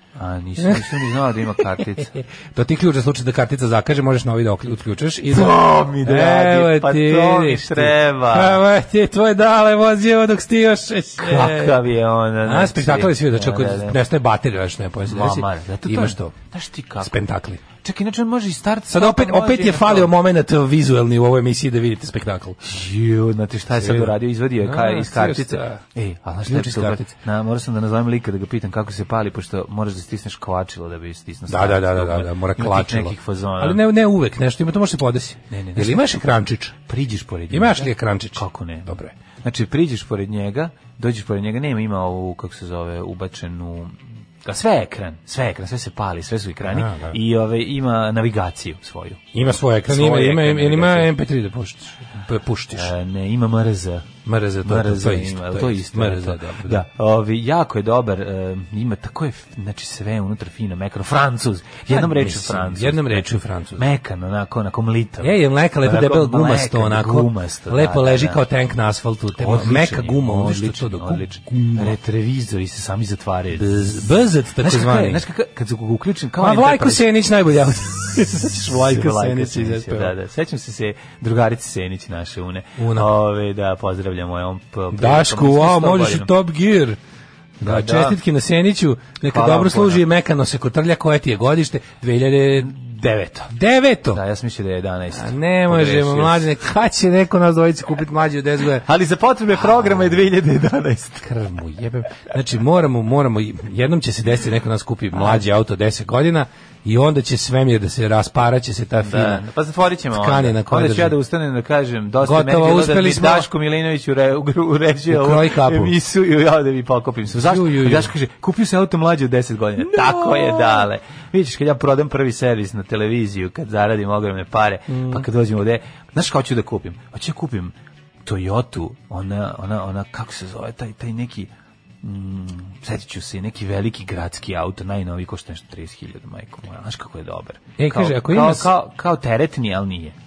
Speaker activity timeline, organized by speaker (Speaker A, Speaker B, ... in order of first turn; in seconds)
Speaker A: 0.1-2.1, 5.3-8.6, 11.2-14.0, 15.1-17.2, 17.8-20.1, 22.6-33.8, 35.5-36.0, 36.9-49.2, 49.9-51.1, 52.7-68.4, 69.4-74.0, 74.6-77.1, 78.2-86.3, 87.6-88.2, 89.2-90.0, 92.5-93.5, 94.1-96.5, 98.8-101.2, 105.2-105.4, 109.0-127.7, 128.2-131.5, 132.0-140.1
Speaker B: 0.6-11.8, 12.4-16.3, 17.0-17.6, 18.9-22.6, 23.8-25.8, 26.4-27.1, 31.5-36.8, 37.5-39.1, 46.7-47.2, 49.3-52.9, 54.2-56.8, 61.9-63.9, 65.2-72.0, 73.5-75.2, 76.4-80.1, 82.8-83.1, 84.9-87.0, 87.6-92.7, 93.5-94.2, 95.1-98.8, 101.2-109.5, 110.1-111.2, 112.2-113.5, 115.1-115.9, 117.3-118.1, 119.8-120.9, 124.9-125.3, 137.8-138.7